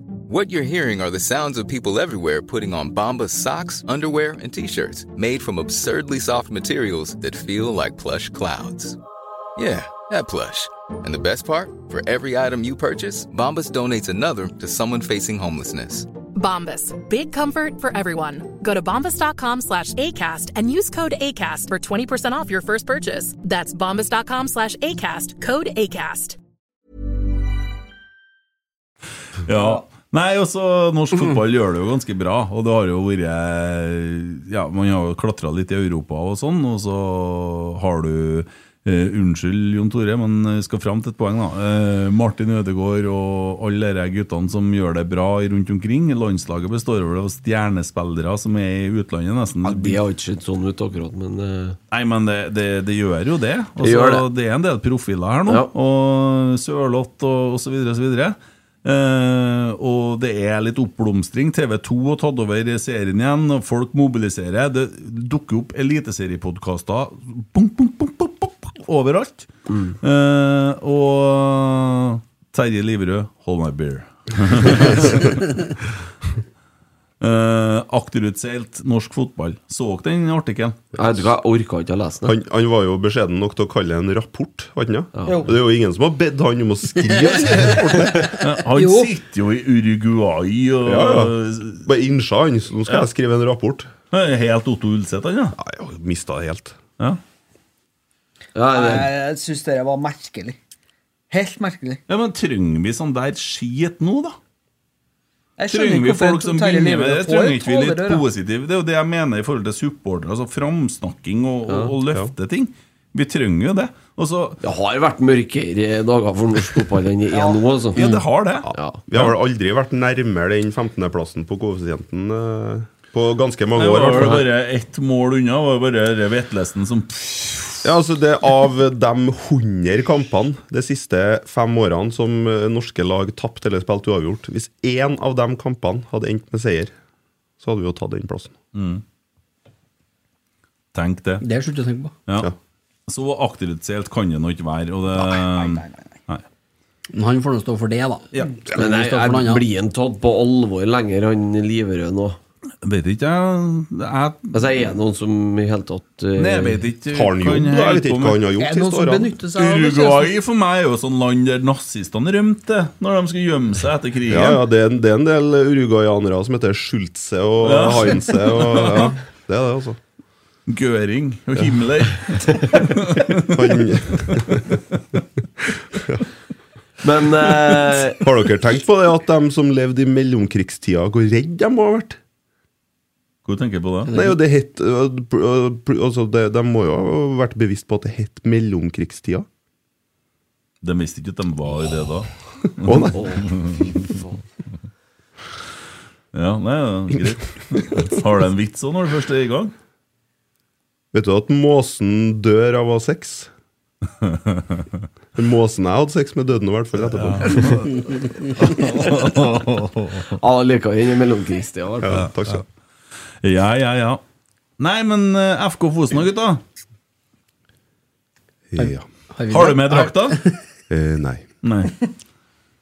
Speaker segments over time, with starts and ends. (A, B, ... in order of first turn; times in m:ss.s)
0:00.3-0:09.0 A
0:09.6-0:16.1 A
0:16.3-0:26.4 B
0:29.4-0:50.0 C
0:49.6-0:51.8 D
0:51.9-1:09.5 C
0:53.8-0:54.3 D
1:09.7-1:10.0 D
1:10.0-1:15.8 C
1:17.2-1:20.8 C
1:21.0-1:22.4 D
1:22.2-1:28.3 E
1:25.2-1:25.5 D
1:25.3-1:25.5 F
1:28.4-1:31.9 C
1:28.7-1:29.1 F
1:30.8-1:33.9 E
1:34.1-1:35.6 C
1:35.6-1:36.8 E
1:38.6-1:39.1 D
1:38.7-1:40.6 F
1:41.3-1:42.0 F
1:42.1-1:44.4 C
1:45.6-1:48.2 F
1:45.7-1:54.6 C
1:51.7-1:51.9 D
1:54.6-1:58.0 D
1:57.3-1:57.7 F
1:57.9-1:59.3 C
1:58.6-2:04.4 E
1:58.7-1:59.0 D
2:03.8-2:07.8 C
2:07.8-2:16.9 E
2:17.6-2:18.5 E
2:18.7-2:19.0 C
2:20.9-2:21.4 C
2:21.4-2:22.1 G
2:23.1-2:26.4 C
2:25.3-2:26.2 F
2:27.1-2:29.6 G
2:28.7-2:32.4 D
2:32.8-2:34.7 C
2:34.5-2:36.8 D
2:36.4-2:36.8 F
2:36.4-2:38.5 C
2:37.1-2:39.4 E
2:38.6-2:40.3 F
2:39.5-2:44.6 C
2:44.3-2:50.0 E
2:47.6-2:49.1 C
2:50.7-2:54.4 C
2:53.5-2:54.7 E
2:57.0-2:58.2 D
2:58.2-3:02.2 E
3:03.4-3:04.1 C
3:04.1-3:09.5 E
3:10.8-3:13.8 C
3:12.8-3:13.2 E
3:13.2-3:14.2 D
3:16.3-3:19.7 C
3:21.1-3:23.5 E
3:24.2-3:24.9 C
3:25.4-3:27.8 E
3:27.2-3:30.3 C
3:30.3-3:32.2 D
3:32.0-3:32.6 E
3:32.2-3:32.6 C
3:33.4-3:34.2 C
3:34.8-3:36.6 C
3:38.7-3:39.1 E
3:38.8-3:40.6 G
3:39.5-3:40.4 C
3:40.9-3:41.4 E
3:41.6-3:42.0 C